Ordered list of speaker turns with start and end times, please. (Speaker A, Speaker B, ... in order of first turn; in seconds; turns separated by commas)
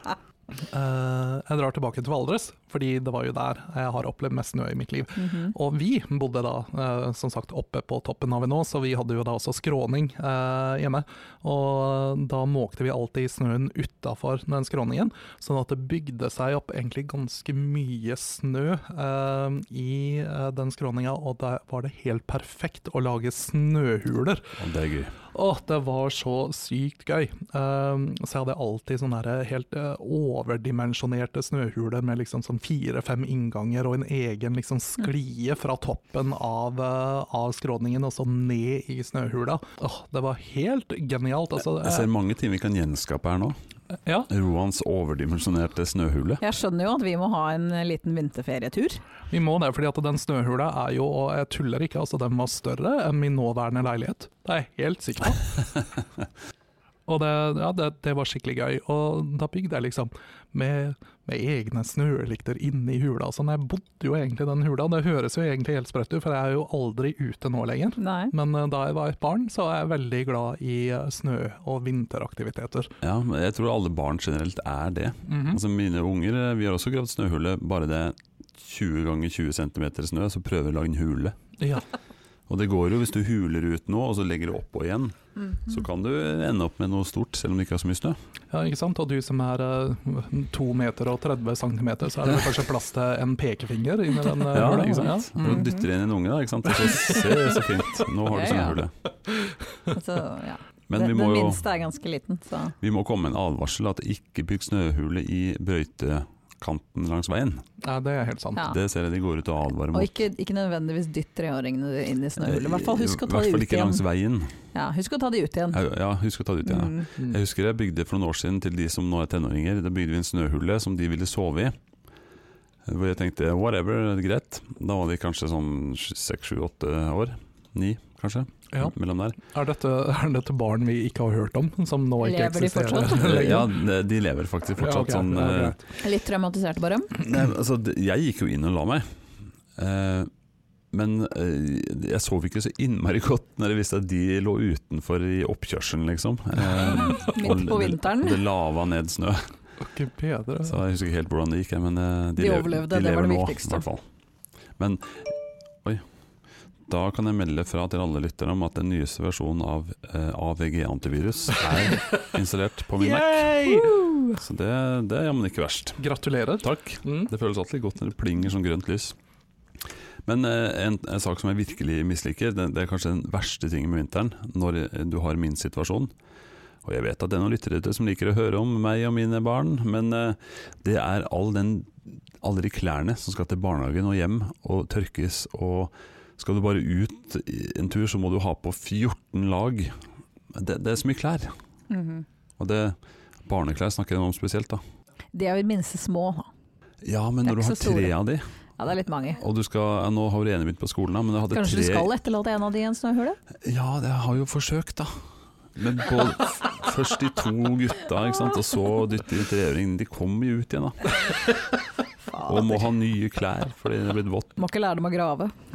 Speaker A: 0.7-24.5, Speaker B: 5.2-5.5, Speaker C: 24.6-25.1, Speaker A: 25.3-42.1, Speaker C: 41.8-43.5, Speaker C: 44.3-46.4, Speaker B: 46.4-49.0, Speaker A: 49.3-55.4, Speaker A: 57.0-72.9, Speaker B: 68.0-68.3, Speaker C: 73.0-81.3, Speaker A: 75.3-75.6, Speaker A: 81.6-81.8, Speaker C: 82.5-88.2, Speaker A: 88.5-95.7, Speaker C: 94.5-98.9, Speaker B: 95.4-95.8, Speaker A: 96.8-97.4, Speaker B: 98.3-98.8, Speaker B: 99.9-102.7, Speaker C: 100.9-101.6, Speaker C: 102.8-107.6, Speaker A: 107.8-108.7, Speaker C: 108.6-110.2, Speaker B: 109.9-114.0, Speaker C: 112.4-114.5, Speaker B: 114.7-115.8, Speaker C: 115.7-121.8, Speaker B: 116.7-117.0, Speaker C: 122.8-129.4, Speaker A: 129.5-133.7, Speaker B: 132.2-133.6, Speaker C: 133.1-135.8, Speaker A: 134.8-135.8, Speaker B: 136.0-137.2, Speaker C: 137.2-139.1, Speaker C: 139.8-140.3, Speaker C: 140.9-149.4, Speaker B: 146.9-148.4, Speaker A: 149.8-150.8, Speaker C: 150.6-154.0, Speaker B: 152.4-153.8, Speaker C: 154.8-156.0, Speaker C: 156.9-166.0, Speaker B: 163.0-164.4, Speaker A: 163.4-163.9, Speaker A: 166.0-167.3, Speaker C: 166.6-169.1, Speaker C: 170.2-176.1, Speaker C: 176.8-189.9, Speaker C: 190.5-191.5, Speaker B: 191.9-192.2, Speaker C: 192.6-194.8, Speaker B: 195.3-196.5, Speaker C: 197.0-198.4, Speaker B: 197.4-198.1, Speaker B: 198.8-199.4, Speaker C: 199.4-202.1, Speaker B: 201.5-203.4, Speaker C: 203.6-205.1, Speaker C: 205.7-211.2, Speaker B: 212.3-212.9, Speaker C: 212.4-214.6, Speaker B: 214.6-215.5